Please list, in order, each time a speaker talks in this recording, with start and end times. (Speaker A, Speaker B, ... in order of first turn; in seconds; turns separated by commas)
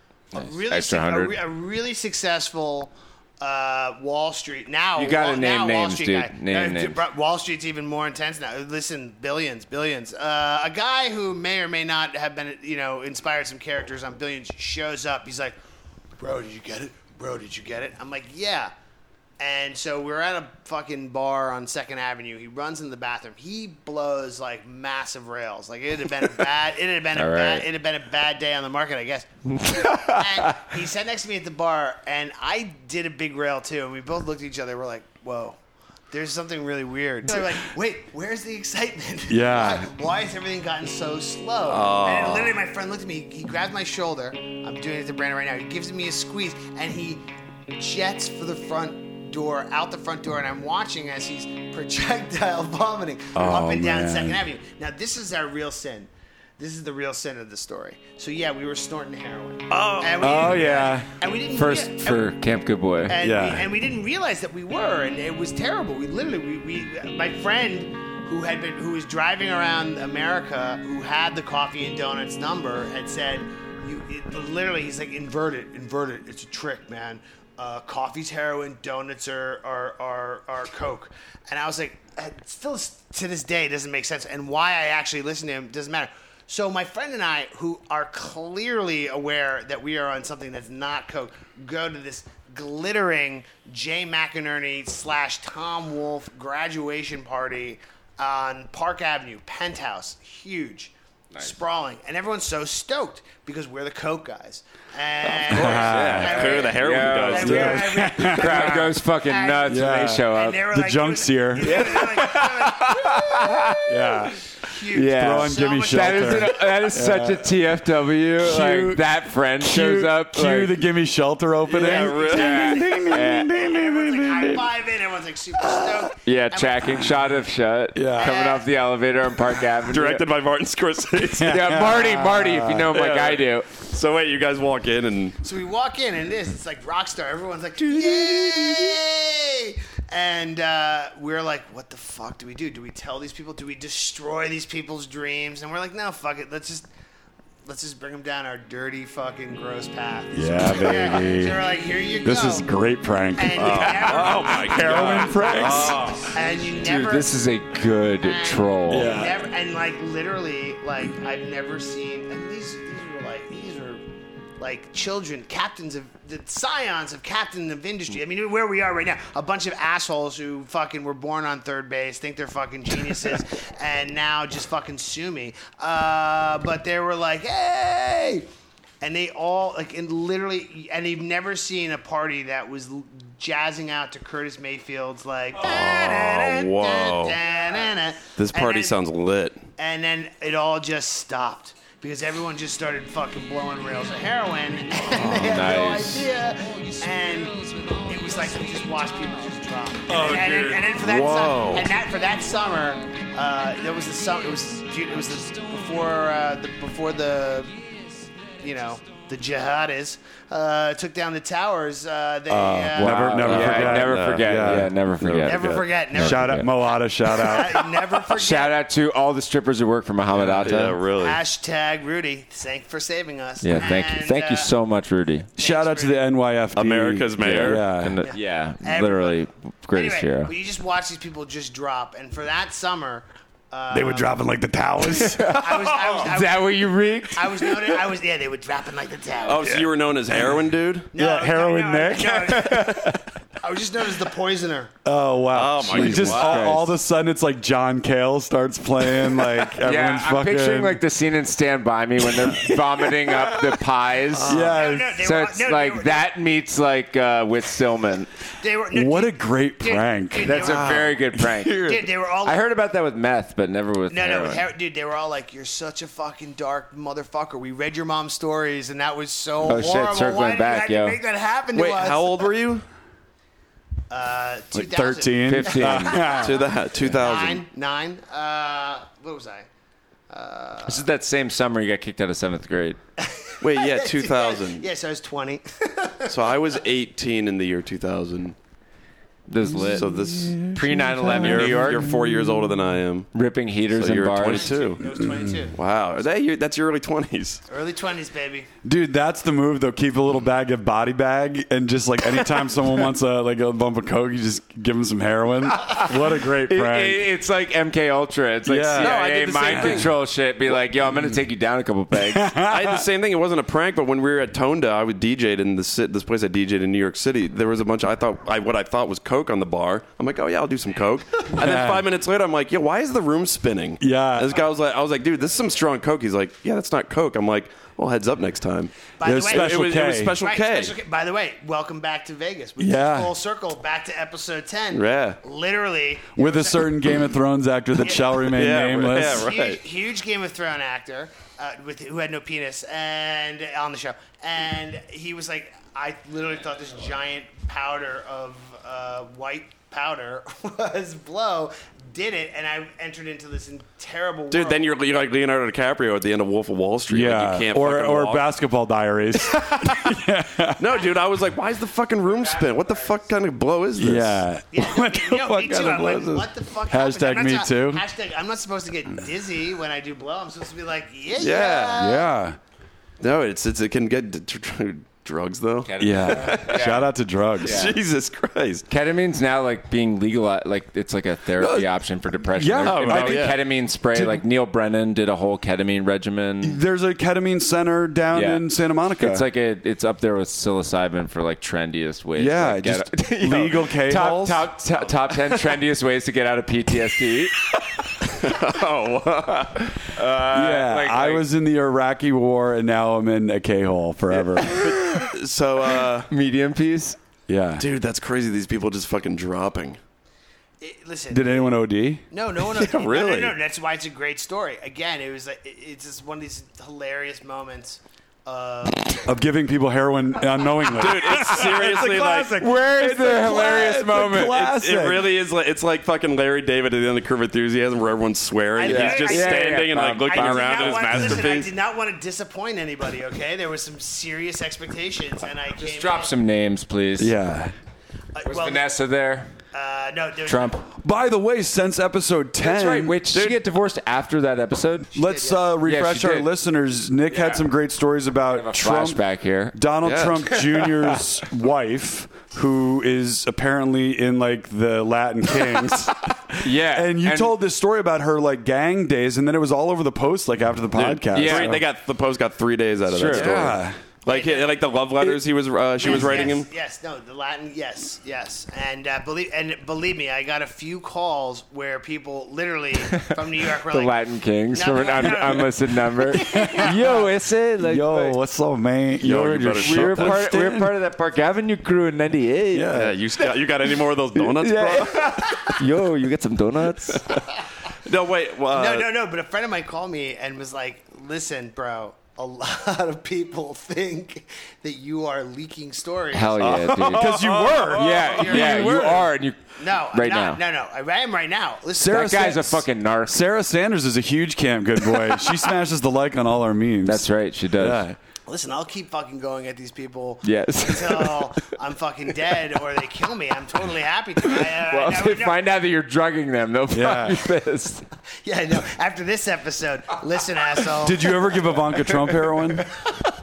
Speaker A: 0.3-15.6, Speaker B: 0.3-1.4, Speaker B: 5.0-7.0, Speaker A: 16.2-18.7, Speaker A: 19.4-35.6, Speaker B: 27.1-27.7, Speaker B: 29.5-30.6, Speaker A: 36.1-62.3, Speaker C: 39.3-39.9, Speaker D: 41.7-42.6, Speaker C: 53.3-54.4, Speaker C: 60.0-61.1, Speaker B: 61.5-63.1, Speaker A: 63.0-113.8, Speaker C: 63.2-63.7, Speaker D: 105.4-107.8, Speaker C: 105.5-106.5, Speaker B: 106.2-110.6, Speaker C: 107.4-109.0, Speaker C: 109.7-112.0, Speaker B: 111.6-113.9, Speaker C: 113.9-114.4, Speaker A: 114.6-116.8, Speaker B: 114.9-120.8, Speaker C: 115.0-117.5, Speaker C: 118.4-119.0, Speaker C: 119.6-124.7, Speaker D: 121.7-122.7, Speaker A: 121.8-127.0, Speaker B: 122.3-123.6, Speaker C: 125.6-126.1, Speaker B: 126.2-130.3, Speaker C: 127.9-128.4, Speaker A: 128.2-128.7, Speaker D: 129.9-131.8, Speaker C: 131.2-132.9, Speaker B: 131.4-133.7, Speaker D: 132.9-135.4, Speaker A: 135.4-146.9, Speaker D: 137.8-138.9, Speaker A: 147.6-152.7, Speaker C: 150.3-151.6, Speaker C: 152.2-156.2, Speaker A: 153.3-157.3, Speaker D: 153.6-156.3, Speaker B: 156.8-159.1, Speaker A: 158.2-164.0, Speaker C: 158.9-159.4, Speaker A: 164.6-178.5, Speaker A: 179.0-189.0, Speaker D: 185.6-187.4, Speaker D: 188.4-189.6, Speaker A: 189.8-207.8, Speaker B: 195.2-196.3, Speaker C: 200.1-200.9, Speaker D: 201.0-201.9, Speaker A: 208.5-213.4, Speaker C: 212.5-214.9, Speaker B: 213.0-216.7, Speaker D: 213.4-215.8, Speaker A: 215.4-218.8, Speaker C: 216.1-218.1, Speaker B: 218.3-221.0, Speaker D: 220.3-221.4, Speaker A: 221.1-224.7, Speaker B: 223.6-225.5, Speaker A: 225.6-226.3, Speaker C: 225.6-228.2, Speaker D: 226.7-227.8, Speaker B: 227.4-230.5, Speaker A: 228.2-234.4, Speaker C: 233.9-235.8, Speaker B: 235.1-238.0, Speaker A: 235.4-236.8, Speaker A: 237.3-239.7, Speaker D: 239.4-241.1, Speaker A: 241.1-243.0, Speaker C: 241.1-243.2, Speaker B: 242.5-243.1, Speaker A: 243.6-244.9, Speaker C: 245.0-251.0, Speaker D: 245.5-246.7, Speaker B: 245.9-246.9, Speaker B: 249.8-258.3, Speaker C: 252.4-253.3, Speaker D: 254.3-254.8, Speaker C: 254.4-255.1, Speaker A: 254.6-256.3, Speaker A: 258.6-261.1, Speaker C: 258.9-260.6, Speaker B: 260.4-264.7, Speaker D: 260.6-262.0, Speaker A: 261.8-262.6, Speaker A: 264.1-272.5, Speaker B: 269.6-271.2, Speaker D: 271.7-272.9, Speaker A: 274.1-279.7, Speaker C: 274.7-276.6, Speaker B: 275.5-276.4, Speaker D: 276.3-277.7, Speaker A: 280.3-281.1, Speaker B: 280.9-283.0, Speaker A: 283.2-286.3, Speaker D: 283.6-284.9, Speaker D: 286.3-288.5, Speaker B: 289.5-292.1, Speaker D: 289.8-293.3, Speaker C: 291.3-292.4, Speaker B: 293.3-294.7, Speaker D: 293.9-295.1, Speaker A: 294.5-295.8, Speaker D: 295.7-297.6, Speaker A: 297.7-298.7, Speaker C: 298.8-307.2, Speaker B: 305.7-312.5, Speaker C: 308.6-310.1, Speaker D: 309.0-310.1, Speaker C: 312.3-313.1, Speaker D: 312.6-330.9, Speaker C: 321.6-322.1, Speaker C: 324.0-324.6, Speaker A: 329.2-336.9, Speaker C: 329.2-330.4, Speaker C: 332.8-333.3, Speaker D: 334.9-335.4, Speaker C: 336.4-339.5, Speaker A: 338.0-338.4, Speaker D: 338.5-339.8, Speaker A: 339.1-354.9, Speaker D: 354.5-358.5, Speaker C: 357.1-361.0, Speaker D: 360.8-364.4, Speaker B: 362.2-363.4, Speaker C: 363.9-368.0, Speaker A: 364.7-372.3, Speaker D: 371.4-372.0, Speaker C: 372.0-372.6, Speaker D: 373.2-377.0, Speaker B: 375.8-378.0, Speaker C: 376.0-377.9, Speaker D: 377.6-378.8, Speaker B: 378.9-386.8, Speaker D: 381.6-381.9, Speaker C: 382.5-384.4, Speaker D: 382.7-383.6, Speaker C: 386.6-389.4, Speaker B: 388.3-388.6, Speaker B: 389.2-397.7, Speaker C: 392.4-394.7, Speaker D: 398.2-399.9, Speaker B: 400.0-401.4, Speaker C: 400.5-404.8, Speaker D: 404.4-406.3, Speaker B: 404.6-405.3, Speaker B: 406.3-407.2, Speaker C: 407.5-407.8, Speaker D: 407.8-410.0, Speaker A: 410.8-411.8, Speaker C: 411.3-412.2, Speaker A: 412.3-419.3, Speaker D: 412.6-413.6, Speaker C: 419.2-425.3, Speaker D: 420.9-422.6, Speaker A: 421.2-422.6, Speaker B: 421.6-424.7, Speaker D: 424.5-431.7, Speaker A: 428.7-436.3, Speaker B: 428.8-431.5, Speaker B: 435.8-437.3, Speaker C: 437.2-437.7, Speaker A: 438.3-438.9, Speaker B: 438.5-439.6, Speaker A: 439.7-440.8, Speaker B: 440.4-440.8, Speaker C: 441.0-443.2, Speaker B: 442.6-445.1, Speaker D: 443.3-443.6, Speaker C: 445.1-449.2, Speaker A: 445.1-445.7, Speaker B: 445.8-446.5, Speaker B: 447.3-447.6, Speaker B: 448.5-449.8, Speaker C: 449.7-461.8, Speaker D: 450.0-450.5, Speaker B: 450.8-451.2, Speaker B: 456.6-457.5, Speaker D: 460.9-466.7, Speaker B: 461.3-461.8, Speaker B: 463.1-463.7, Speaker C: 463.3-464.0, Speaker A: 464.3-464.8, Speaker A: 465.9-474.2, Speaker B: 473.1-478.4, Speaker A: 474.7-476.9, Speaker C: 476.5-480.9, Speaker D: 479.2-480.7, Speaker B: 479.7-487.4, Speaker C: 482.7-483.1, Speaker D: 482.9-485.4, Speaker A: 485.5-485.7, Speaker D: 488.0-489.1, Speaker A: 488.7-496.7, Speaker B: 496.3-500.6, Speaker D: 496.6-498.9, Speaker C: 497.1-499.3, Speaker A: 498.2-502.8, Speaker B: 502.0-503.4, Speaker C: 502.0-508.2, Speaker B: 507.0-508.0, Speaker A: 508.4-515.6, Speaker B: 510.4-511.5, Speaker B: 514.5-518.0, Speaker C: 516.9-517.5, Speaker A: 518.4-521.5, Speaker C: 521.0-522.9